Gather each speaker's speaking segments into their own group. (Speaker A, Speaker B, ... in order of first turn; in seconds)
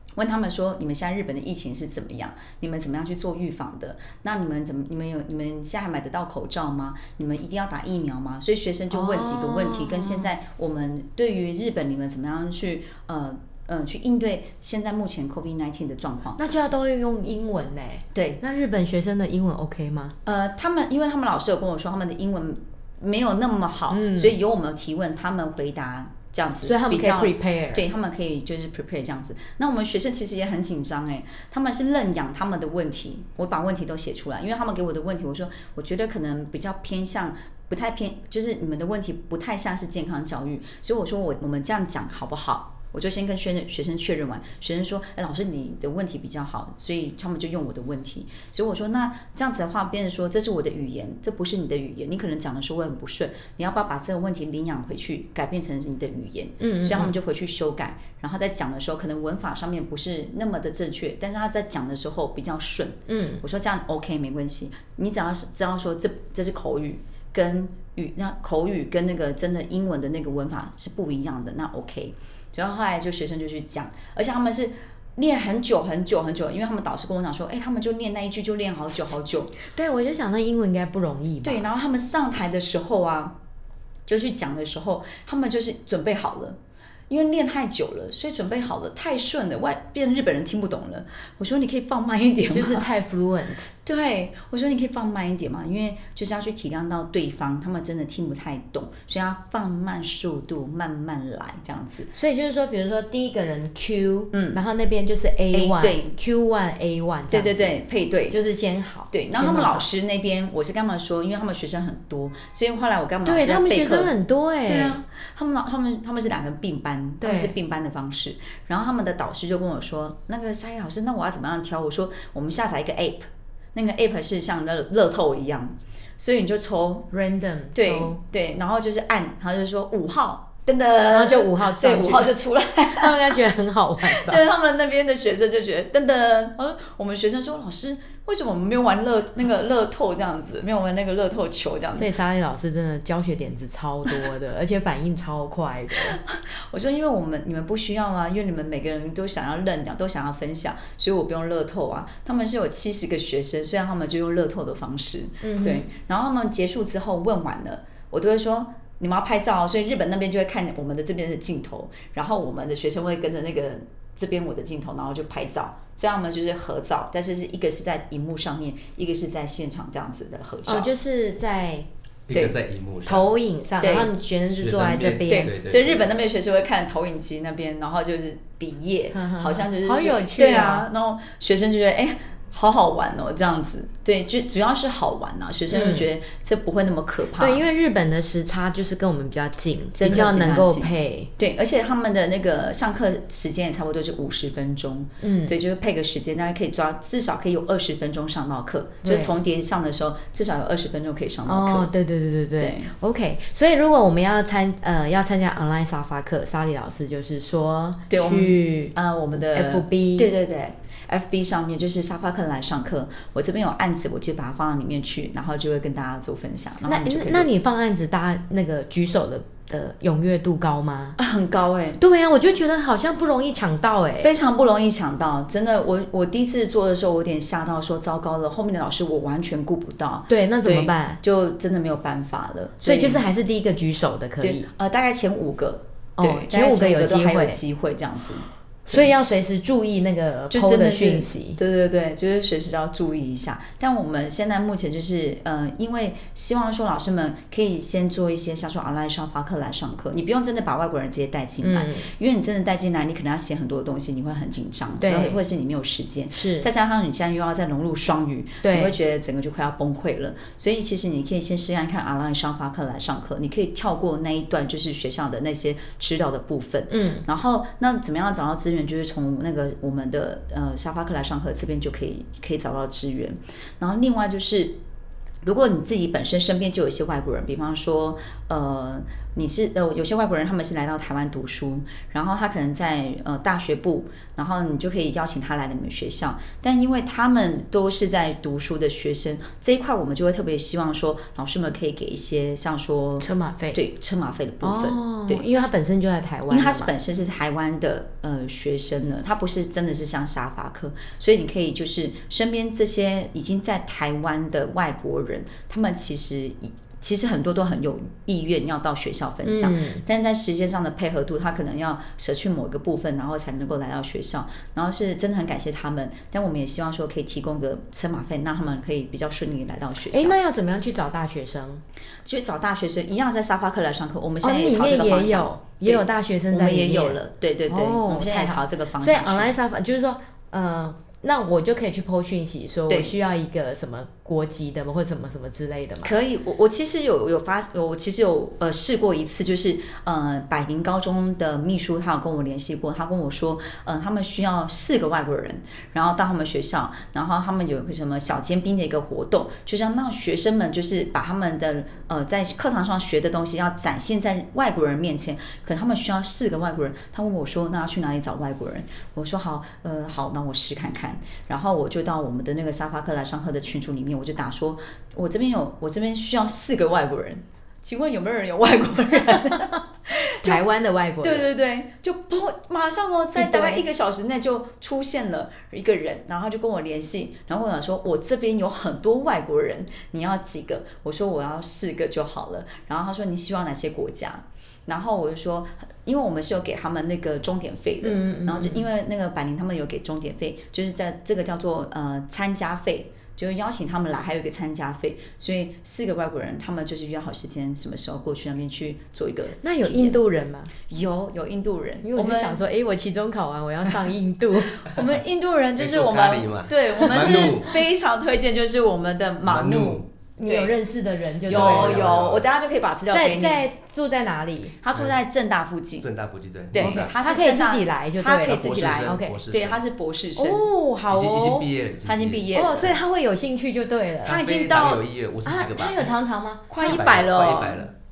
Speaker A: 0.1-16.4, 18.1-18.4, 20.2-79.5, 81.4-83.4, 84.0-92.9, 93.8-102.1, 104.3-104.6, 105.5-106.1, 107.3-108.4, 109.1-114.1, 114.7-127.1, 127.7-133.4, 134.0-142.1, 145.9-170.9, 173.8-174.1, 175.3-187.6, 189.9-201.9, 202.6-202.9, 208.1-217.5, 221.2-222.0, 224.2-233.2, 234.4-239.1, 240.5-274.8, 275.4-295.5, 296.5-320.4, 322.2-329.6, 332.9-333.1, 336.0-370.6, 371.2-400.2, 400.9-402.6, 404.8-410.8, 411.5-413.7, 414.8-416.1, 416.7-420.7, 422.0-423.0, 424.2-425.0, 426.7-427.9
Speaker B: 8.9-10.3, 16.4-20.1, 23.9-24.4, 26.6-27.8, 56.6-57.1, 63.1-63.4, 79.7-81.7, 92.5-93.7, 102.1-109.9, 113.2-115.0, 117.2-117.5, 127.1-128.2, 131.1-134.4, 141.9-146.2, 155.4-155.9, 170.7-171.9, 173.1-175.5, 179.1-180.9, 185.7-186.1, 187.4-191.3, 195.2-195.6, 199.0-199.3, 201.4-210.3, 216.9-221.2, 222.0-224.3, 230.3-231.2, 232.8-234.7, 236.2-237.6, 238.8-241.6, 251.6-252.1, 255.0-255.4, 256.3-256.7, 258.6-258.9, 266.9-267.2, 293.2-293.8, 294.6-296.9, 309.4-310.0, 320.1-321.8, 324.4-336.1, 370.2-371.5, 373.4-373.8, 388.0-388.8, 399.6-400.7, 402.0-404.9, 410.4-412.1, 413.1-414.8, 416.8-419.4, 420.4-421.7, 422.5-424.4, 425.4-426.9
Speaker C: 172.3-173.3, 174.5-176.1, 405.8-407.8, 409.4-410.0, 411.5-412.5, 416.0-417.1, 418.6-419.8, 421.1-422.6, 424.2-426.1, 426.8-427.9